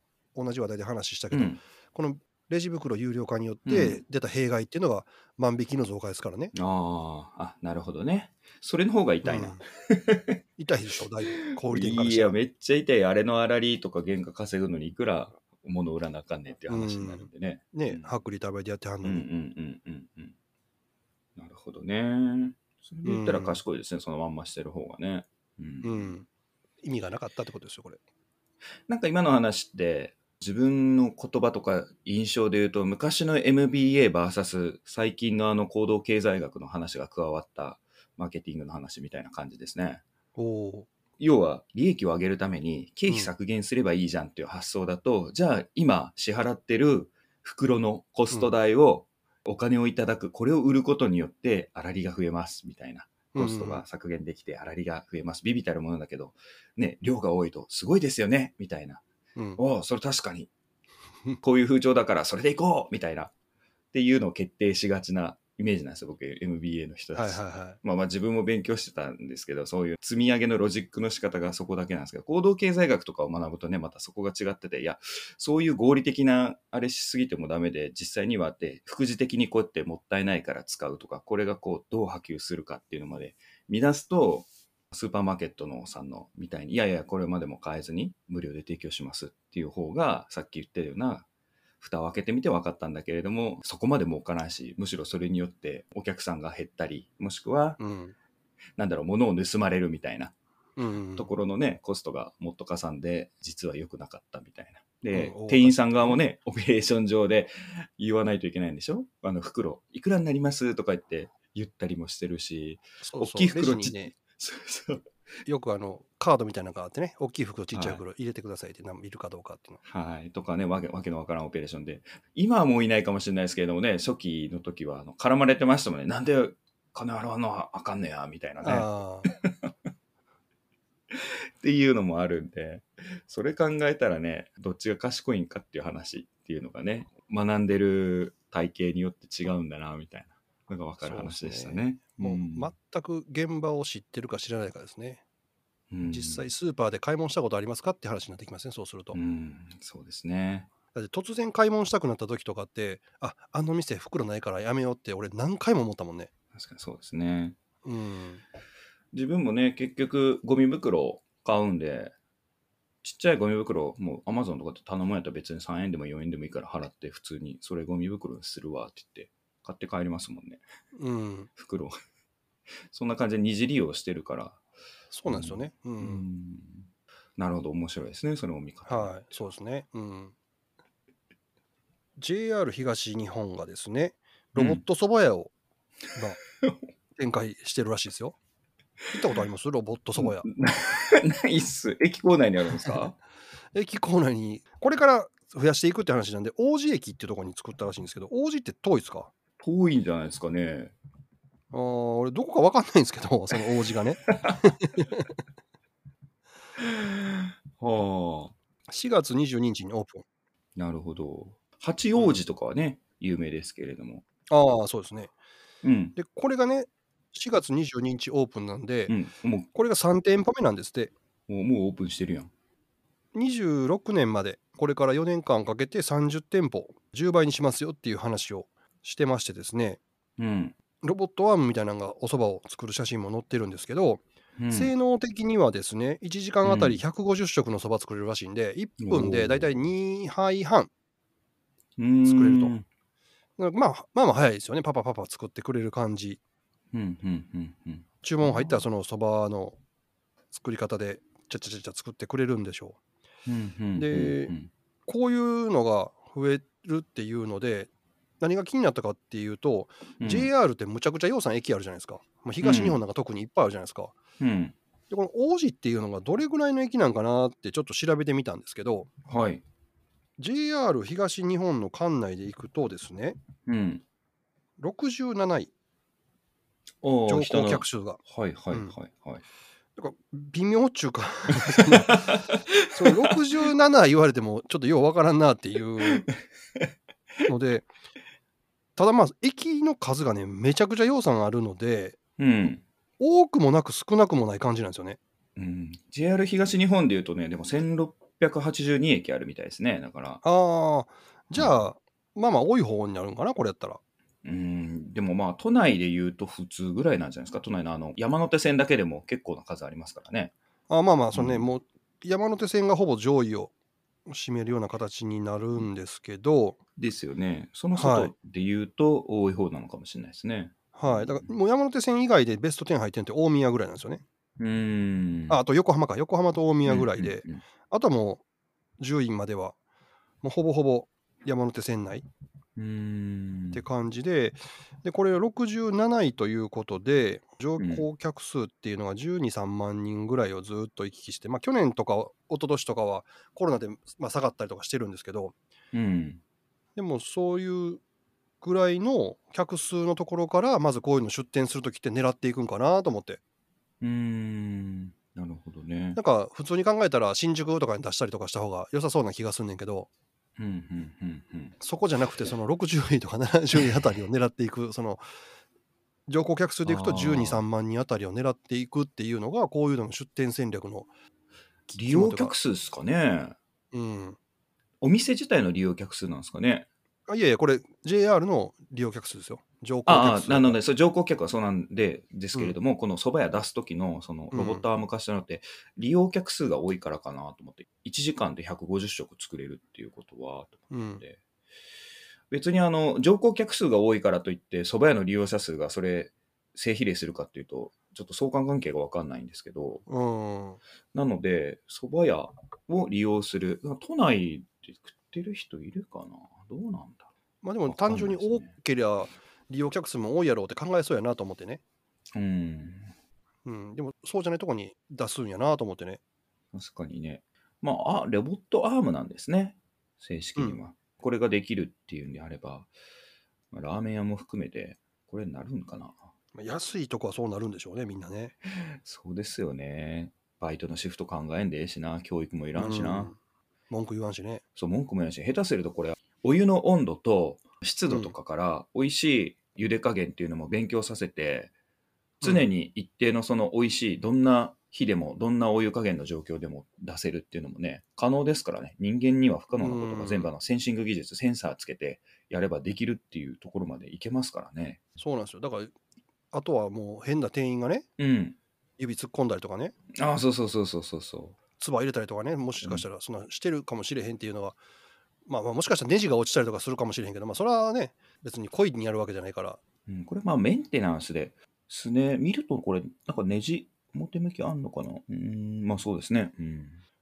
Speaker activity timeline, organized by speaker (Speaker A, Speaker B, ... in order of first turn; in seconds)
Speaker A: 0.3-6.5, 9.2-9.6, 10.6-12.3, 16.7-19.3, 23.0-23.6, 25.8-26.3, 26.8-28.0, 40.4-40.9, 43.1-43.3, 53.3-53.8, 67.1-67.8, 97.8-98.1, 100.8-101.3, 105.1-106.2, 113.0-114.1, 115.5-119.8, 128.6-129.3, 141.0-145.2, 146.1-149.2, 150.9-156.3, 157.8-158.4, 170.9-171.5, 175.1-176.2, 178.8-180.3, 182.2-185.5, 187.2-188.3, 189.1-190.4, 193.7-199.3, 201.7-205.3, 208.9-210.2, 214.5-215.3, 216.2-219.1, 219.7-221.1, 223.3-230.0, 231.0-240.9, 242.2-242.7, 243.6-246.4, 248.2-249.8, 250.5-253.0, 253.9-254.5, 255.1-264.1, 265.1-269.1, 270.4-273.4, 274.8-275.7, 277.3-278.2, 280.0-286.3, 287.4-287.9, 288.9-292.2, 293.2-295.2, 300.4-304.0, 310.9-313.7, 314.2-316.8, 317.9-318.3, 320.9-324.2, 325.5-328.4, 329.0-329.8, 330.4-332.2, 333.7-345.6, 346.9-348.0, 348.6-353.4, 356.1-360.1, 361.8-365.2, 366.3-371.1, 371.9-372.5, 373.9-374.4, 377.3-380.8, 384.5-384.8, 390.9-391.2, 400.1-400.8, 407.6-411.8, 413.6-416.2, 426.5-428.5, 432.8-433.4, 433.9-434.6, 438.1-438.3, 442.4-442.7, 449.8-450.5, 455.2-455.9, 456.5-458.1, 459.0-459.9, 461.8-464.8, 465.4-469.8
Speaker B: 1.3-1.6, 3.6-4.0, 6.5-10.4, 11.4-18.1, 19.0-20.3, 21.4-26.1, 28.9-40.0, 41.2-59.0, 59.6-60.5, 61.4-63.3, 63.9-91.3, 91.8-97.8, 98.8-100.3, 101.1-115.1, 117.7-118.0, 119.8-129.7, 131.1-142.7, 145.9-146.5, 149.1-150.7, 156.5-157.6, 159.1-162.1, 163.0-170.6, 171.6-171.9, 172.9-174.6, 175.2-179.5, 184.6-184.8, 190.2-193.2, 199.6-200.9, 204.4-204.7, 206.8-208.5, 210.8-214.2, 215.8-216.2, 219.1-219.7, 221.5-222.5, 230.4-230.8, 234.6-234.9, 236.6-237.0, 239.0-239.8, 242.0-242.8, 246.9-248.8, 253.4-254.7, 260.2-260.5, 262.6-263.0, 264.4-264.8, 269.3-269.6, 273.6-274.0, 277.0-279.4, 281.7-283.3, 292.4-292.8, 295.6-300.4, 304.4-310.5, 311.3-311.7, 317.0-321.5, 324.6-325.6, 326.9-327.6, 332.8-333.8, 337.8-338.0, 345.9-346.4, 354.0-356.2, 360.6-361.8, 366.8-367.6, 371.9-373.6, 375.0-376.9, 380.1-391.4, 392.5-400.0, 401.1-407.3, 407.9-408.7, 412.3-413.1, 416.7-422.9, 423.7-426.2, 429.0-433.3, 434.8-441.7, 442.4-455.0, 458.2-458.6, 460.1-461.6, 470.1-477.0